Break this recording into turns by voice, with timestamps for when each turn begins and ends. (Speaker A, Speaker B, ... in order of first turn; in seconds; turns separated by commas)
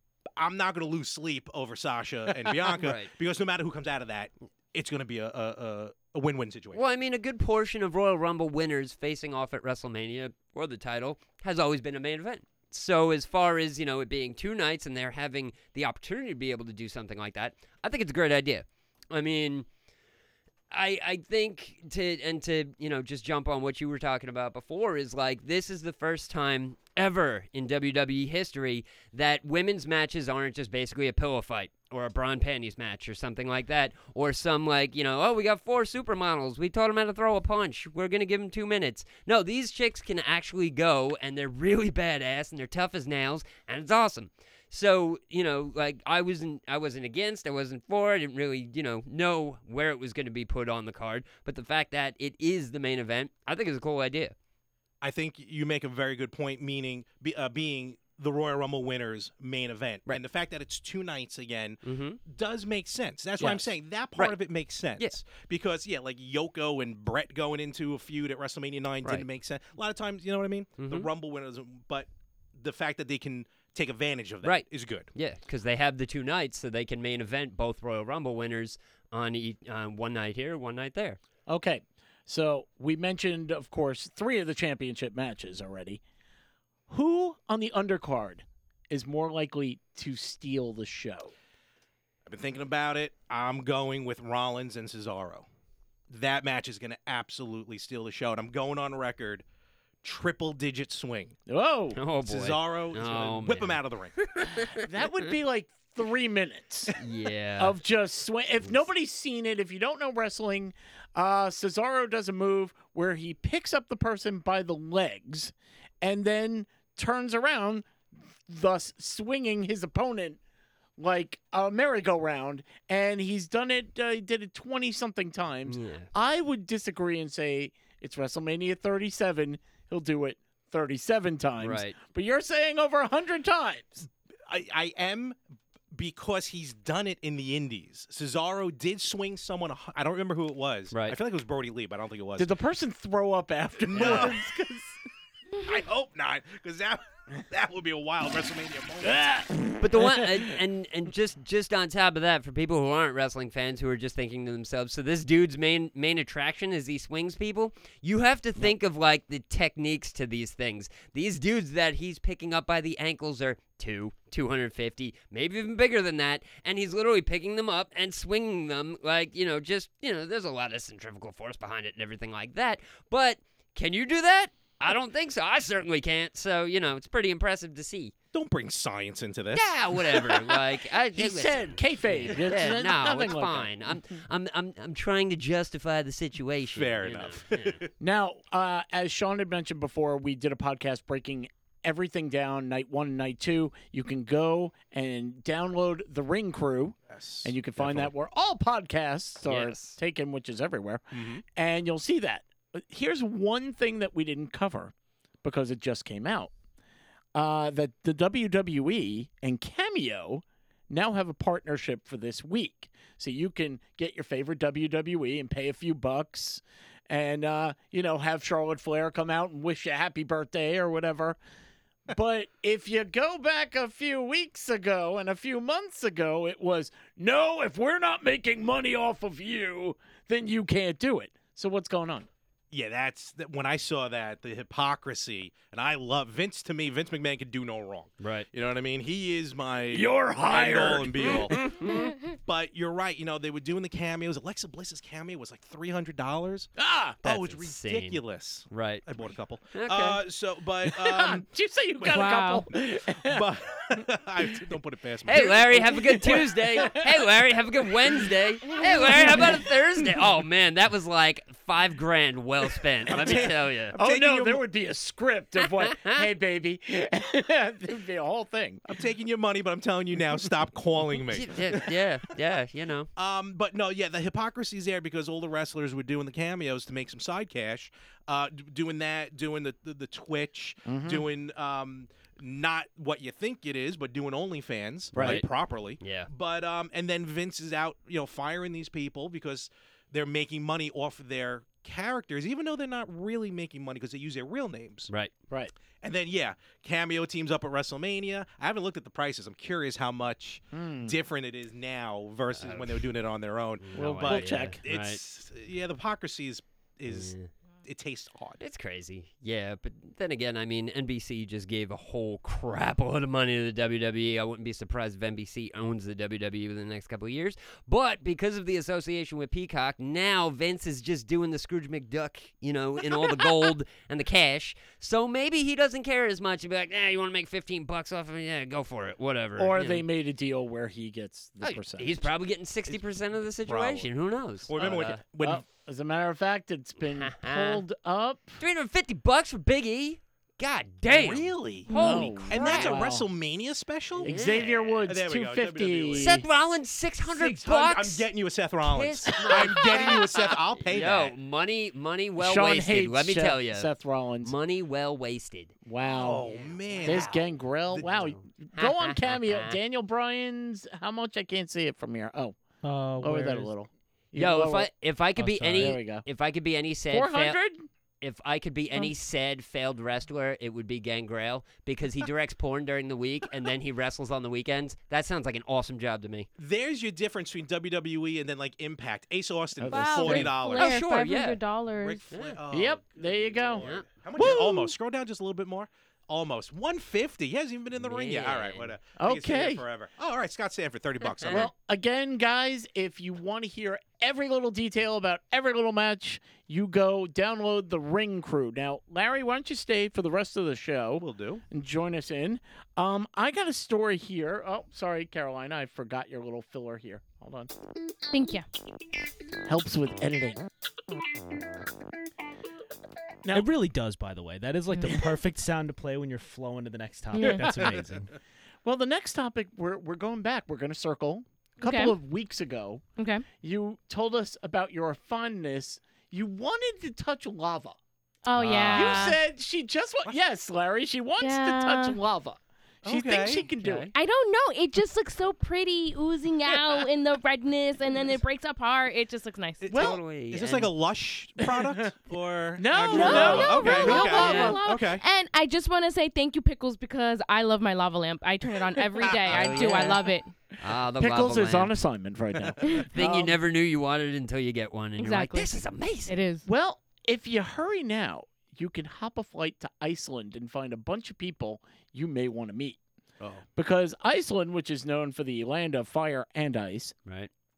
Speaker A: 0.4-6.8, Speaker B: 2.8-3.1, Speaker B: 6.7-19.7, Speaker B: 20.7-54.3, Speaker A: 55.0-75.1, Speaker B: 61.8-62.2, Speaker B: 70.8-71.1, Speaker B: 74.4-81.2, Speaker C: 81.5-86.0, Speaker C: 86.9-91.3, Speaker A: 92.3-95.5, Speaker A: 96.1-99.4, Speaker A: 100.0-101.4, Speaker C: 101.5-102.0, Speaker B: 102.0-105.3, Speaker A: 102.2-104.2, Speaker C: 104.8-107.0, Speaker B: 107.0-107.8, Speaker C: 107.6-117.9, Speaker C: 118.5-120.4, Speaker C: 121.0-134.1, Speaker B: 125.7-126.1, Speaker B: 131.6-132.0, Speaker A: 134.5-135.4, Speaker A: 135.9-142.5, Speaker B: 140.9-141.2, Speaker C: 142.4-145.0, Speaker A: 143.8-144.4, Speaker B: 144.0-144.3, Speaker A: 145.6-149.4, Speaker C: 149.0-150.4, Speaker B: 149.8-178.1, Speaker A: 178.3-180.4, Speaker B: 179.5-187.8, Speaker C: 181.2-184.0, Speaker A: 186.7-187.9, Speaker C: 188.0-206.5, Speaker A: 197.1-198.1, Speaker B: 199.5-200.0, Speaker A: 201.1-201.4, Speaker C: 207.3-221.4, Speaker C: 222.1-232.3, Speaker A: 232.7-246.7, Speaker B: 238.2-238.5, Speaker C: 239.9-241.8, Speaker B: 241.6-242.1, Speaker C: 246.8-247.2, Speaker A: 247.2-251.5, Speaker B: 247.2-248.2, Speaker B: 248.7-249.1, Speaker B: 249.7-250.2, Speaker C: 250.8-253.5, Speaker A: 252.0-252.3, Speaker D: 252.1-252.7, Speaker A: 253.2-256.6, Speaker B: 255.3-263.9, Speaker C: 255.4-257.1, Speaker C: 258.1-260.2, Speaker A: 263.1-264.6, Speaker C: 263.2-268.9, Speaker B: 265.6-266.2, Speaker A: 268.9-271.9, Speaker B: 271.3-273.1, Speaker A: 273.2-295.1, Speaker C: 280.9-281.2, Speaker B: 285.1-285.4, Speaker C: 285.1-285.4, Speaker B: 286.0-286.3, Speaker A: 296.0-308.6, Speaker C: 300.7-301.1, Speaker B: 302.6-303.1, Speaker B: 303.8-305.2, Speaker C: 304.0-304.8, Speaker B: 307.1-307.5, Speaker B: 308.6-330.1, Speaker C: 329.6-332.3, Speaker B: 331.6-335.2, Speaker A: 333.7-334.1, Speaker A: 334.7-335.7, Speaker C: 335.4-338.6, Speaker B: 337.1-337.8, Speaker B: 338.6-342.9, Speaker A: 341.1-344.5, Speaker D: 341.9-342.3, Speaker C: 341.9-343.3, Speaker C: 344.2-346.4, Speaker B: 344.2-345.1, Speaker A: 345.1-346.4, Speaker B: 346.1-348.3, Speaker A: 347.2-351.3, Speaker B: 348.9-353.9, Speaker C: 349.4-350.4, Speaker C: 352.4-354.5, Speaker B: 354.4-355.8, Speaker C: 355.9-356.5, Speaker A: 356.1-358.3, Speaker B: 356.5-357.5, Speaker C: 357.1-362.6, Speaker B: 358.0-359.8, Speaker E: 362.8-363.7, Speaker C: 363.2-364.9, Speaker B: 364.4-367.6, Speaker E: 365.4-365.9, Speaker C: 365.4-366.2, Speaker C: 367.1-367.9, Speaker B: 368.2-376.5, Speaker A: 376.6-381.0, Speaker C: 379.8-380.5, Speaker D: 379.9-382.2, Speaker B: 380.4-381.6, Speaker A: 382.0-391.7, Speaker B: 382.3-382.6, Speaker C: 382.7-383.9, Speaker B: 383.8-384.1, Speaker C: 384.4-384.9, Speaker B: 388.0-389.0, Speaker C: 389.2-389.8, Speaker B: 391.2-391.7, Speaker C: 391.5-407.7, Speaker A: 401.2-401.6, Speaker D: 408.3-408.7, Speaker C: 409.7-410.6, Speaker E: 413.5-418.3, Speaker D: 414.9-415.2, Speaker D: 417.3-417.8, Speaker C: 417.4-418.0, Speaker C: 418.8-423.0, Speaker D: 421.8-422.1, Speaker D: 423.2-423.4, Speaker C: 423.6-428.0, Speaker D: 428.4-429.4, Speaker B: 428.6-429.2, Speaker C: 428.9-434.1, Speaker D: 431.4-432.2, Speaker A: 433.0-433.7, Speaker B: 433.8-434.1, Speaker D: 434.1-439.9, Speaker A: 439.8-445.2, Speaker B: 439.9-440.9, Speaker C: 439.9-440.2, Speaker C: 441.6-442.1, Speaker C: 442.8-444.8, Speaker D: 443.1-450.5, Speaker B: 443.4-444.8, Speaker C: 449.5-450.2, Speaker B: 449.6-450.1, Speaker C: 450.8-453.6, Speaker B: 450.8-451.9, Speaker D: 452.8-453.1, Speaker B: 453.1-456.3, Speaker D: 455.2-456.7, Speaker C: 456.7-463.0, Speaker C: 463.8-467.1